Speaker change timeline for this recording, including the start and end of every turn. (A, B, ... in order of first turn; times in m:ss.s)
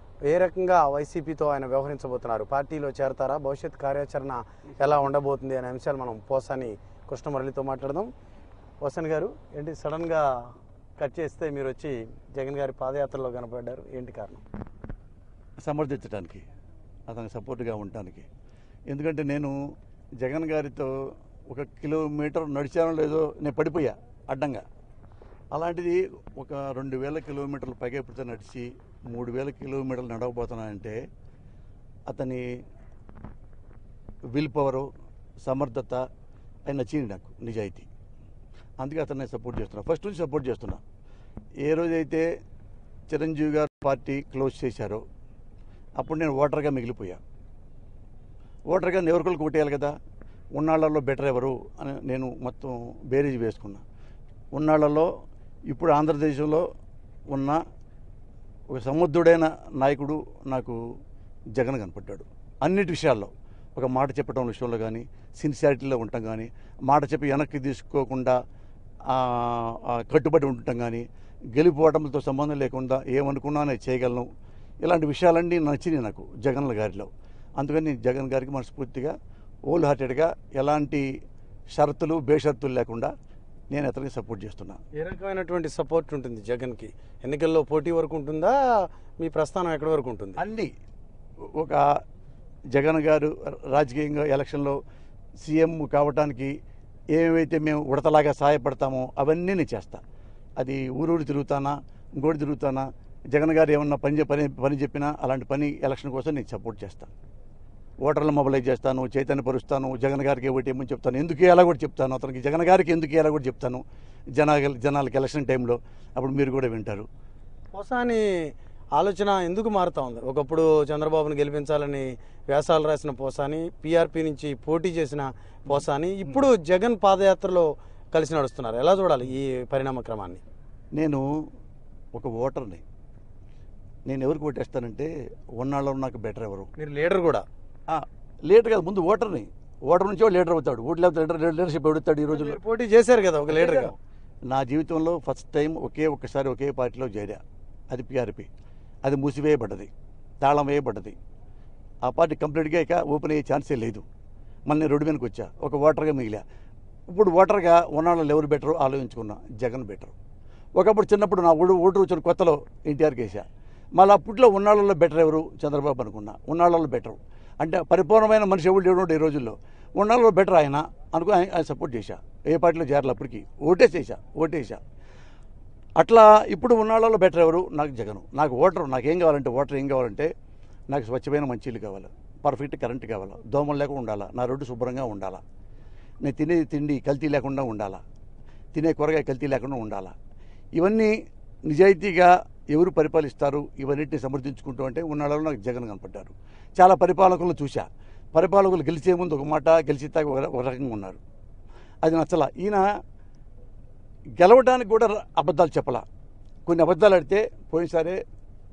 0:00.3-0:08.1 A
0:08.8-0:10.3 A
0:11.0-0:14.4 A
0:15.6-0:16.4 B
0:17.1-0:18.3 B
0:18.9-0:19.5 B
0:20.2-0:20.9 B
0:21.5-0:24.6 B
0:25.5-0:31.0 B
0:32.1-0:32.4 B
0:34.3-0:34.9 B
0:35.4-0:36.0 B
0:36.6-0:37.9 B
0:38.8-0:40.8 B
0:41.6-0:42.3 B
0:43.1-0:45.0 B
0:46.0-0:47.2 B
0:48.7-0:49.9 B
0:50.5-0:53.8 B
0:54.5-0:55.1 B
0:55.7-0:56.6 B
0:57.3-0:57.6 B
0:58.7-1:00.8 B
1:01.5-1:08.4 B
1:09.1-1:14.3 B
1:14.8-1:19.1 B
1:19.7-1:21.0 B
1:21.7-1:23.1 B
1:23.7-1:24.8 B
1:25.0-1:30.4 A
1:30.4-1:30.7 B
1:31.5-1:31.8 B
1:32.7-1:34.8 B
1:35.4-1:36.5 B
1:37.1-1:40.0 B
1:40.6-1:47.1 B
1:48.0-1:53.8 B
1:54.4-1:57.1 B
1:57.7-1:58.2 A
1:59.0-2:10.4 A
2:10.9-2:11.2 B
2:12.1-2:12.8 B
2:14.0-2:16.7 B
2:16.8-2:17.4 A
2:17.9-2:22.6 B
2:22.3-2:23.9 A
2:23.5-2:23.9 B
2:24.5-2:28.5 B
2:29.0-2:29.9 B
2:30.4-2:31.2 B
2:32.0-2:34.0 B
2:34.7-2:36.4 B
2:37.1-2:40.1 B
2:40.8-2:54.8 B
2:56.0-3:00.3 B
3:00.9-3:05.4 B
3:06.2-3:08.0 B
3:08.7-3:10.1 B
3:10.8-3:11.1 B
3:11.7-3:21.2 B
3:22.0-3:22.8 B
3:24.4-3:26.0 B
3:26.6-3:28.2 B